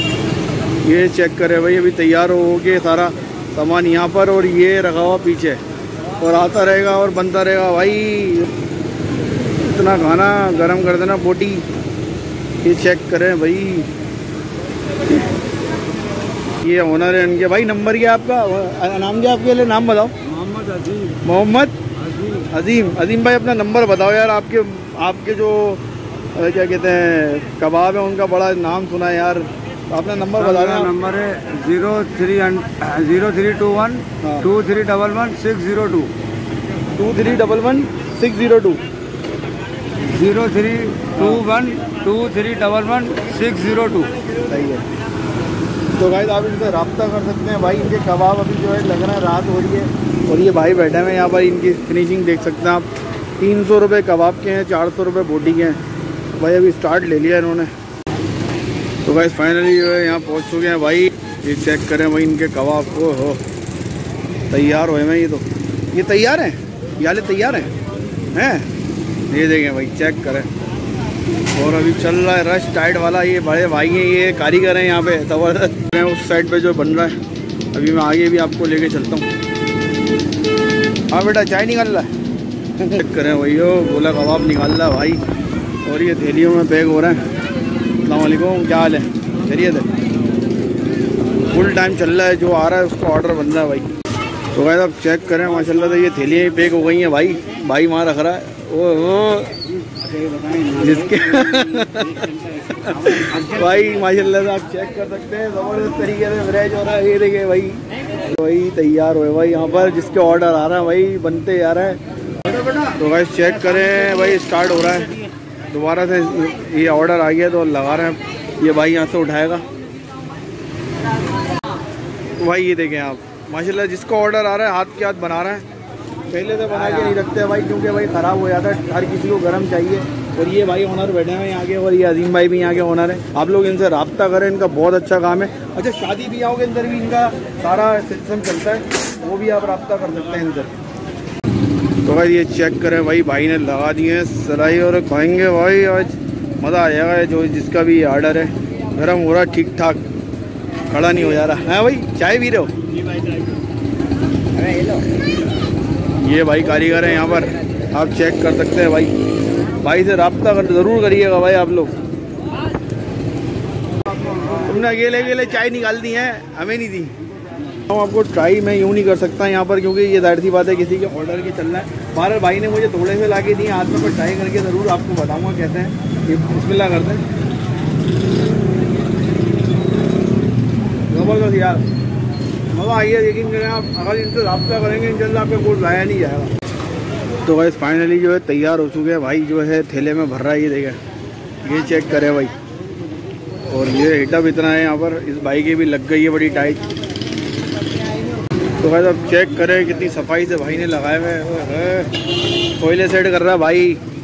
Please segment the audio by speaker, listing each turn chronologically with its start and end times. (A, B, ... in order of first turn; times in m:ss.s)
0:00.8-0:05.6 A
0:06.2-0:08.5 A
0:09.6-0:11.6 A
0:12.6-0:13.9 A
0:16.6-0:20.1 A
0:20.2-0:21.2 B
0:21.2-0:21.8 A
0:22.0-0:22.5 B
0:22.5-0:25.8 A
0:26.3-0:30.9 A
0:30.4-0:36.1 B
0:34.2-0:34.5 A
0:37.0-0:38.8 A
0:40.0-0:44.1 B
0:41.2-0:41.4 A
0:44.5-0:44.8 A
0:46.0-0:52.9 A
0:53.4-0:55.8 A
0:56.4-0:57.7 A
0:59.0-1:03.4 A
1:04.5-1:07.7 A
1:08.3-1:08.7 A
1:09.3-1:10.5 A
1:11.5-1:17.2 A
1:17.7-1:19.3 A
1:21.1-1:22.1 A
1:22.8-1:25.2 A
1:25.8-1:27.2 A
1:28.0-1:29.9 A
1:31.5-1:33.9 A
1:34.5-1:39.5 A
1:40.7-1:52.0 A
1:53.0-1:55.1 A
1:55.7-1:59.6 A
2:02.4-2:05.6 A
2:06.3-2:20.7 A
2:22.0-2:30.0 A
2:30.9-2:32.7 A
2:36.2-2:39.1 A
2:39.8-2:41.9 A
2:44.5-2:47.1 A
2:47.8-2:57.2 A
3:01.1-3:01.8 A
3:02.7-3:06.5 A
3:07.4-3:11.0 A
3:11.6-3:12.5 A
3:13.7-3:16.8 A
3:18.8-3:22.1 A
3:22.8-3:24.0 A